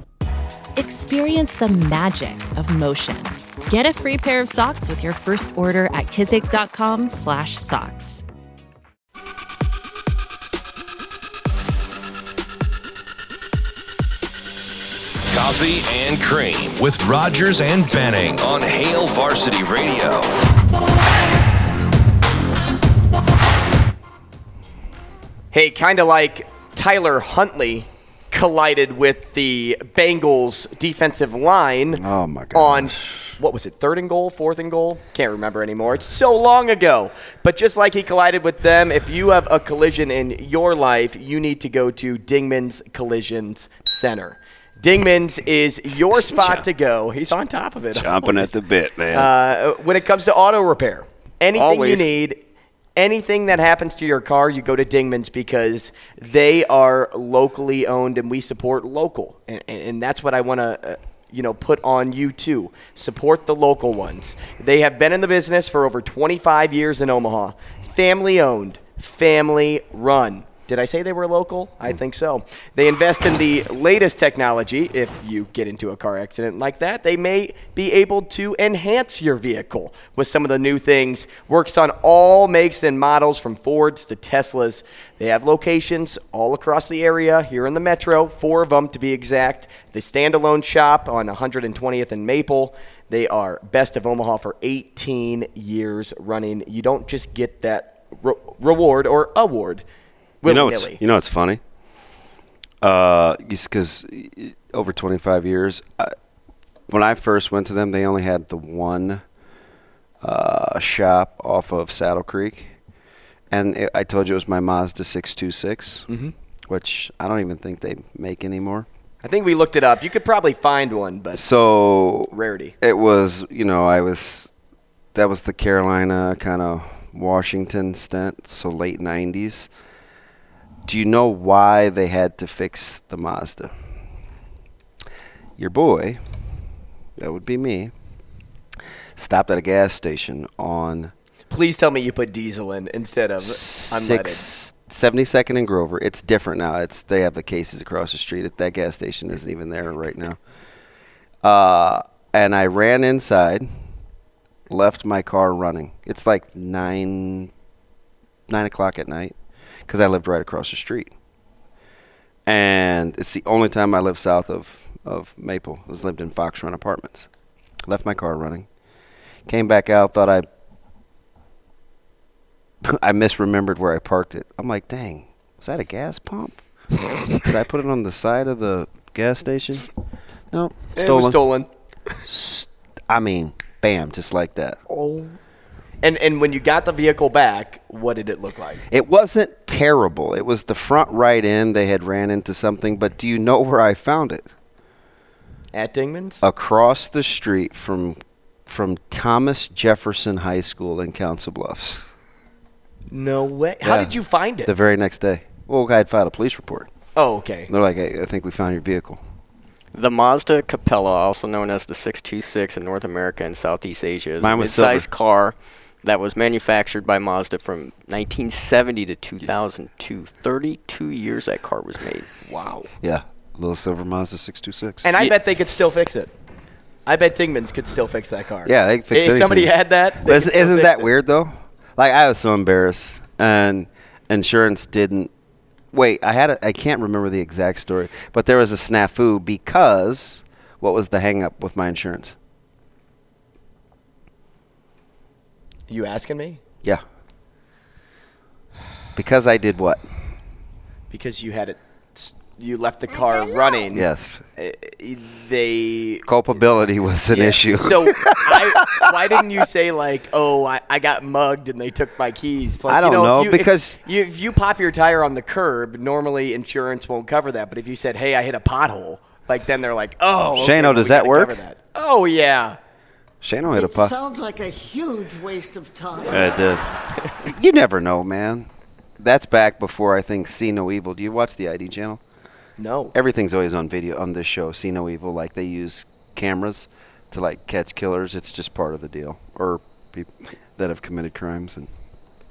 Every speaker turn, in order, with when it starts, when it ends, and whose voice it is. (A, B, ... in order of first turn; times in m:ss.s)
0:00.8-0:08.2 A
0:15.3-0:20.3 B
0:25.5-0:52.4 C
0:31.9-0:33.4 D
0:46.2-0:46.7 D
0:47.9-0:49.3 D
0:51.5-0:52.1 E
0:53.0-1:39.8 C
1:40.4-1:41.0 C
1:40.4-1:41.6 D
1:42.8-1:46.2 D
1:46.9-1:49.2 D
1:50.2-1:52.8 D
1:53.5-1:56.1 D
1:56.1-1:56.3 C
1:56.7-1:58.9 D
1:59.2-2:01.5 C
2:01.3-2:04.5 D
2:02.3-2:02.8 C
2:05.2-2:09.7 D
2:10.9-2:13.7 D
2:15.6-2:16.2 D
2:17.2-2:17.9 D
2:19.2-2:21.1 D
2:21.5-2:24.4 C
2:23.4-2:30.4 D
2:31.4-2:33.7 D
2:34.7-2:37.5 D
2:38.5-2:39.4 D
2:39.9-2:41.1 D
2:42.5-2:47.3 D
2:47.9-2:48.7 D
2:49.5-2:50.5 D
2:52.8-2:56.6 D
2:57.3-2:59.9 D
3:00.5-3:01.4 D
3:01.0-3:01.7 C
3:02.3-3:04.8 D
3:04.9-3:05.4 C
3:06.0-3:08.8 C
3:08.9-3:14.5 D
3:15.7-3:16.4 C
3:16.4-3:22.1 D
3:23.1-3:24.7 C
3:23.8-3:24.1 D
3:24.7-3:26.9 D
3:27.2-3:27.7 C
3:27.7-3:29.2 D
3:29.9-3:42.3 E
3:34.4-3:35.1 D
3:42.5-3:42.9 C
3:43.0-3:45.1 D
3:45.0-3:46.3 C
3:47.1-3:51.1 C
3:48.6-3:55.3 D
3:55.9-4:02.4 D
4:05.9-4:06.6 C
4:09.2-4:10.1 D
4:11.1-4:16.3 C
4:13.9-4:14.4 D
4:16.3-4:19.1 D
4:17.3-4:32.8 C
4:22.9-4:24.0 D
4:30.6-4:31.6 D
4:33.4-4:34.1 D
4:33.8-4:36.5 F
4:36.3-4:36.8 D
4:37.4-4:38.7 D
4:39.2-4:42.2 D
4:42.8-4:43.2 C
4:43.1-4:51.9 D